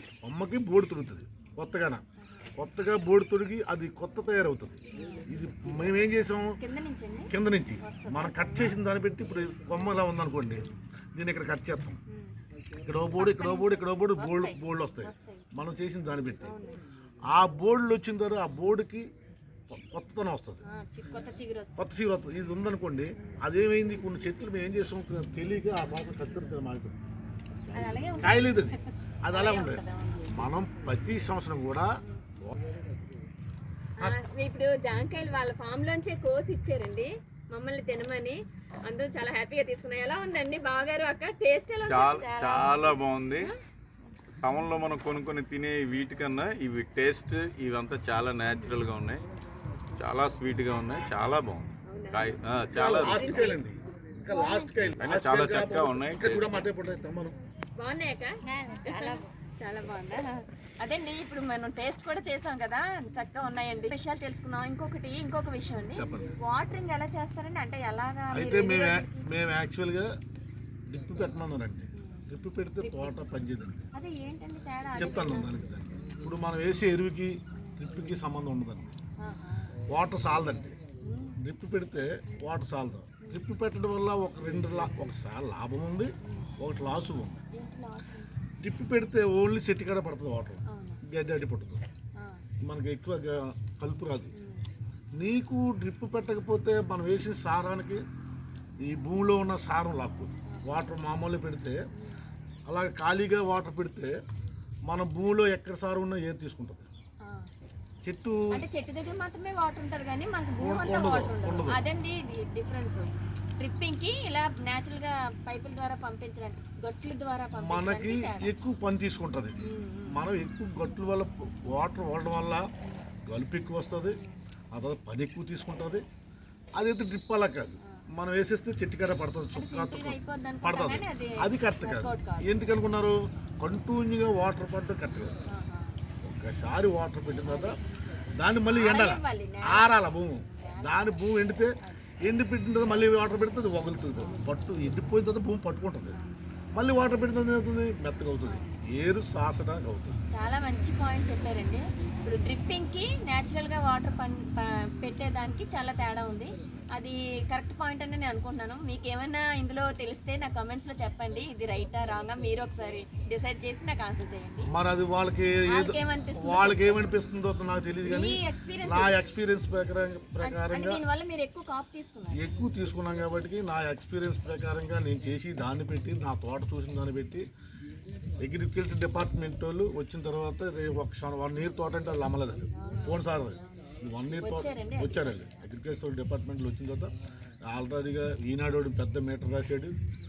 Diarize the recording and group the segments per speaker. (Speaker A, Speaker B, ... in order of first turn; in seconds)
Speaker A: 0.2-2.0, 2.6-6.6, 7.3-12.0, 12.8-16.6, 17.3-19.1, 19.7-20.6, 21.8-27.0, 27.7-32.8, 52.7-57.4, 65.9-66.4, 68.3-70.1, 70.9-73.9, 75.0-78.9, 79.9-80.8, 81.4-87.4, 88.6-91.8, 92.6-94.3, 95.2-98.0, 98.8-101.8, 102.7-104.1, 104.9-106.9, 108.0-108.6, 110.6-111.8, 117.6-122.7, 123.3-124.2, 124.7-126.0, 126.8-135.4, 136.2-137.8, 138.4-146.2, 146.7-150.2, 164.7-171.0, 172.3-177.4, 178.4-187.1, 187.7-189.9
Speaker B: 2.2-2.5, 4.9-5.3, 6.6-8.8, 12.1-12.4, 13.2-15.4, 16.4-16.8, 20.6-21.8, 27.7-30.6, 34.0-43.5, 51.9-53.6, 54.3-54.7, 57.8-69.3, 72.0-72.2, 72.8-73.2, 73.9-75.5, 77.5-77.9, 79.2-79.8, 81.0-81.4, 87.5-88.4, 90.7-91.0, 92.2-92.5, 94.3-94.7, 100.5-100.8, 107.2-107.5, 108.5-118.5, 119.6-120.2, 129.5-132.7, 135.5-135.9, 137.4-137.8, 138.7-141.2, 144.2-144.4, 148.5-148.8, 150.3-164.7, 165.7-167.1, 168.0-169.1, 170.4-172.4, 182.7-185.5
Speaker C: 41.9-43.5, 44.4-49.3, 50.0-53.5, 54.9-56.7